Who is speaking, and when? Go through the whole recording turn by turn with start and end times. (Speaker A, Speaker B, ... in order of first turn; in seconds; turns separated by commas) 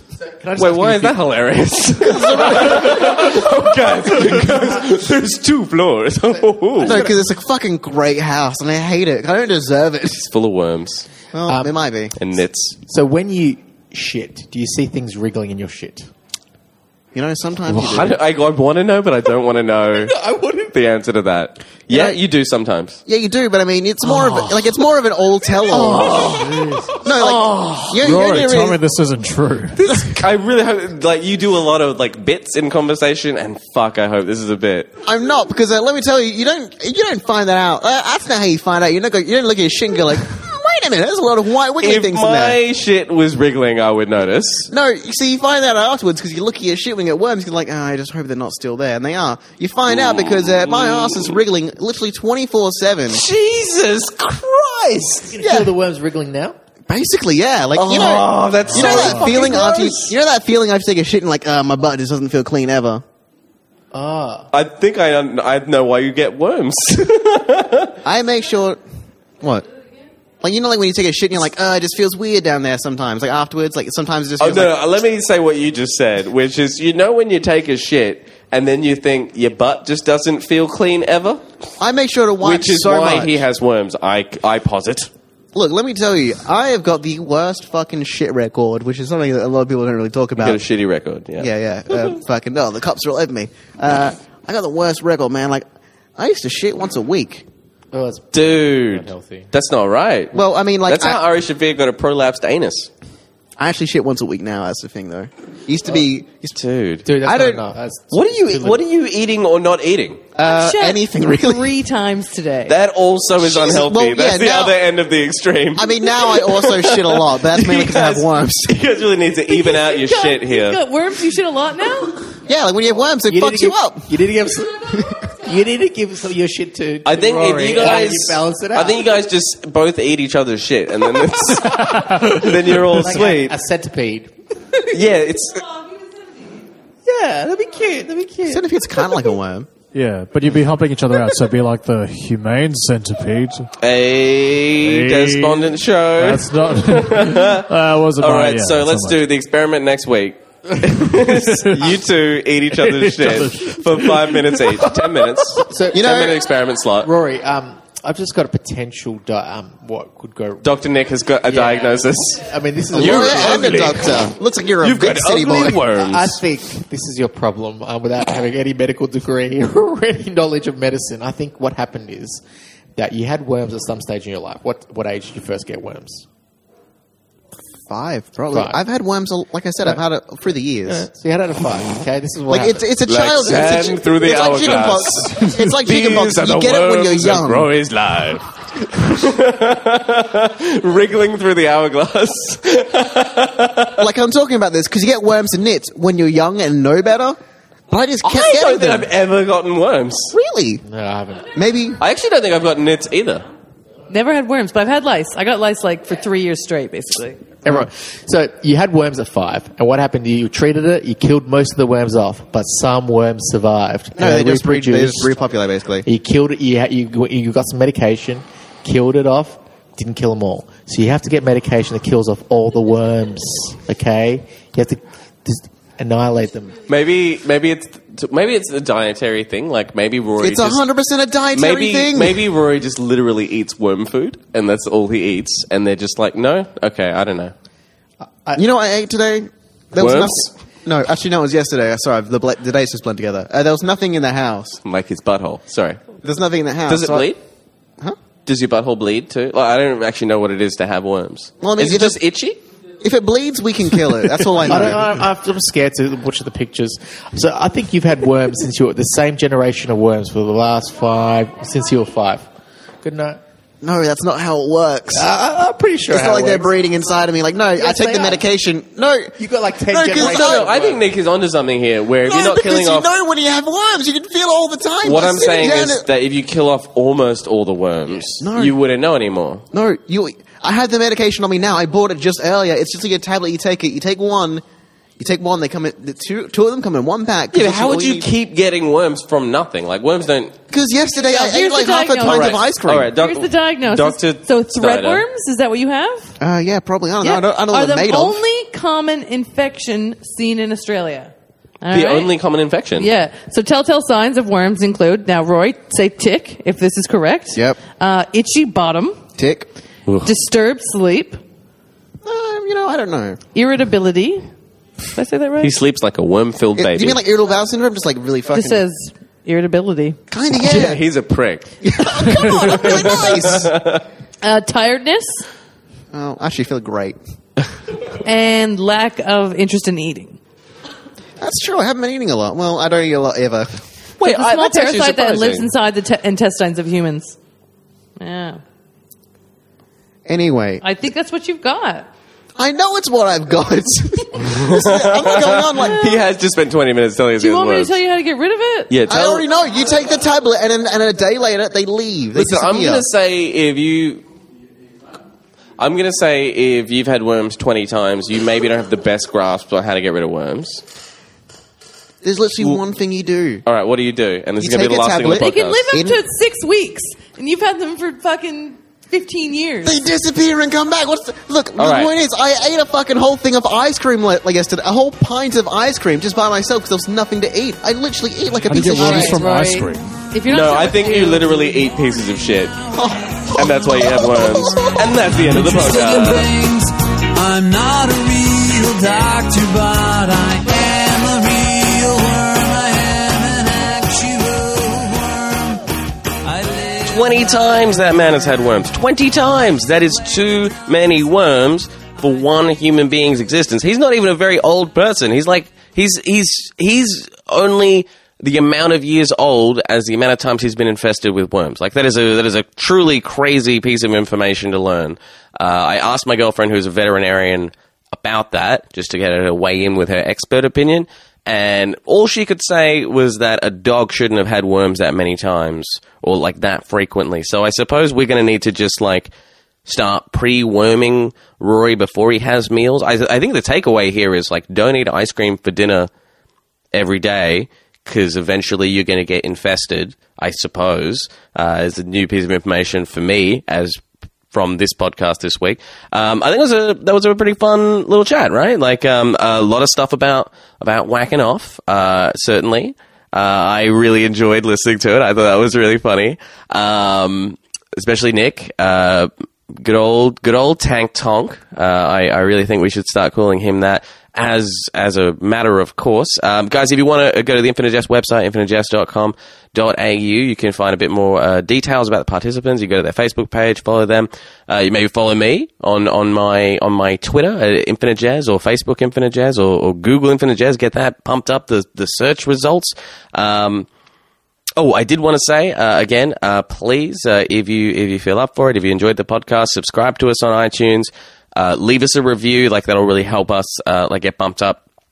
Speaker A: 0.2-1.2, Speaker B: 0.6-7.0, Speaker C: 2.0-3.2, Speaker C: 6.8-10.3, Speaker A: 6.8-7.1, Speaker B: 10.3-11.1, Speaker C: 11.3-12.1, Speaker A: 11.5-11.7, Speaker B: 12.2-12.8, Speaker A: 12.9-16.1, Speaker C: 17.1-18.2, Speaker B: 17.7-23.0, Speaker A: 20.0-20.7, Speaker C: 21.9-22.2, Speaker C: 23.1-26.4, Speaker B: 25.7-28.0, Speaker A: 26.0-26.9, Speaker C: 27.0-28.8, Speaker D: 28.0-30.1, Speaker B: 29.8-35.0, Speaker C: 35.0-42.6, Speaker B: 41.8-44.7, Speaker C: 44.7-53.2, Speaker B: 49.9-51.4, Speaker B: 53.1-55.3, Speaker A: 55.3-56.6, Speaker C: 55.4-55.7, Speaker C: 56.9-63.0, Speaker B: 57.8-60.1, Speaker D: 58.7-59.2, Speaker A: 63.9-64.5, Speaker B: 64.5-68.0, Speaker C: 68.0-68.8, Speaker C: 69.4-69.7, Speaker C: 70.4-74.8, Speaker B: 74.4-81.5, Speaker C: 81.8-83.4, Speaker B: 82.4-85.1, Speaker C: 85.5-90.6, Speaker B: 90.4-92.2, Speaker C: 91.4-95.7, Speaker C: 96.2-97.5, Speaker A: 97.9-99.5, Speaker B: 98.3-102.9, Speaker C: 100.3-101.2, Speaker C: 103.6-106.6, Speaker B: 106.5-107.1, Speaker A: 107.0-108.8, Speaker C: 107.2-107.7, Speaker B: 108.1-110.2, Speaker C: 110.4-111.7, Speaker E: 110.4-112.8, Speaker B: 112.7-120.8, Speaker C: 113.4-114.8, Speaker C: 115.8-118.8, Speaker E: 119.5-122.3, Speaker C: 122.5-124.1, Speaker A: 123.3-129.0, Speaker C: 124.9-125.2, Speaker B: 127.0-133.6, Speaker A: 131.5-134.9, Speaker D: 131.8-132.5, Speaker B: 134.9-135.7, Speaker A: 137.1-139.3, Speaker C: 138.5-139.7, Speaker D: 139.9-143.7, Speaker B: 143.8-157.1, Speaker D: 144.8-149.2, Speaker D: 151.2-151.9, Speaker D: 152.8-154.5, Speaker A: 155.6-156.1, Speaker C: 155.9-156.4, Speaker A: 157.0-160.7, Speaker B: 160.6-164.2, Speaker A: 161.5-163.9, Speaker C: 162.9-165.8, Speaker B: 164.8-166.4, Speaker A: 166.0-172.4, Speaker A: 173.0-176.3, Speaker C: 177.9-181.1, Speaker A: 178.5-178.8, Speaker A: 180.9-182.9, Speaker C: 182.5-187.7, Speaker B: 183.1-194.1, Speaker C: 194.0-197.4, Speaker C: 197.9-199.1, Speaker B: 198.2-200.3, Speaker C: 200.3-200.8, Speaker A: 200.8-201.5, Speaker C: 201.5-202.0, Speaker B: 202.0-203.4, Speaker E: 204.1-207.5, Speaker A: 207.6-215.3, Speaker C: 214.2-216.1, Speaker A: 216.1-226.8, Speaker B: 226.9-230.8, Speaker C: 230.4-232.4, Speaker B: 231.5-237.5, Speaker C: 238.6-244.8, Speaker B: 240.0-240.5, Speaker B: 244.8-246.0, Speaker C: 246.2-247.3, Speaker B: 246.9-247.4, Speaker B: 248.5-252.6, Speaker C: 251.6-252.2, Speaker C: 253.0-255.1, Speaker A: 254.6-262.5, Speaker A: 263.0-263.4, Speaker C: 263.8-265.3, Speaker A: 265.1-266.8, Speaker C: 266.1-269.4, Speaker A: 267.8-268.4, Speaker A: 269.4-271.0, Speaker C: 269.9-270.7, Speaker B: 270.2-273.1, Speaker C: 272.2-276.1, Speaker B: 275.0-279.6, Speaker C: 278.4-278.8, Speaker C: 279.7-284.6, Speaker C: 285.2-288.3, Speaker B: 287.5-290.6, Speaker C: 290.7-293.1, Speaker E: 291.3-292.6, Speaker B: 292.2-295.2, Speaker E: 293.2-296.4, Speaker C: 296.4-298.4, Speaker E: 297.2-301.3, Speaker E: 301.8-302.3, Speaker B: 301.9-303.1, Speaker E: 303.0-309.2, Speaker C: 307.5-307.8, Speaker C: 309.4-309.7, Speaker E: 310.2-311.4, Speaker C: 312.2-313.4, Speaker E: 313.5-314.5, Speaker E: 315.1-315.8, Speaker B: 315.6-317.2, Speaker C: 316.8-318.8, Speaker E: 318.5-320.2, Speaker C: 320.3-321.0, Speaker B: 320.6-321.7, Speaker C: 321.8-323.8, Speaker B: 322.4-324.1, Speaker E: 324.4-325.5, Speaker C: 326.1-327.2, Speaker E: 328.2-330.4, Speaker C: 331.4-333.7, Speaker B: 334.2-335.7, Speaker E: 334.2-337.4, Speaker E: 338.2-338.6, Speaker C: 340.3-340.8, Speaker E: 340.8-342.1, Speaker C: 342.6-346.0, Speaker B: 344.4-347.9, Speaker E: 345.8-346.3, Speaker E: 347.4-348.9, Speaker B: 348.9-349.4, Speaker C: 349.1-353.1, Speaker B: 352.4-354.2, Speaker B: 355.8-360.8, Speaker C: 362.2-363.6, Speaker B: 363.7-365.9, Speaker C: 364.6-366.2, Speaker E: 365.4-370.0, Speaker C: 369.8-379.4, Speaker B: 371.8-372.1, Speaker D: 378.7-380.2, Speaker E: 378.8-381.9, Speaker B: 380.5-382.8, Speaker C: 382.9-385.1, Speaker B: 383.5-386.5, Speaker F: 385.4-395.9, Speaker F: 396.4-398.0, Speaker B: 397.0-429.3, Speaker B: 429.9-436.1, Speaker B: 436.9-444.0, Speaker B: 444.5-483.9, Speaker B: 484.8-494.8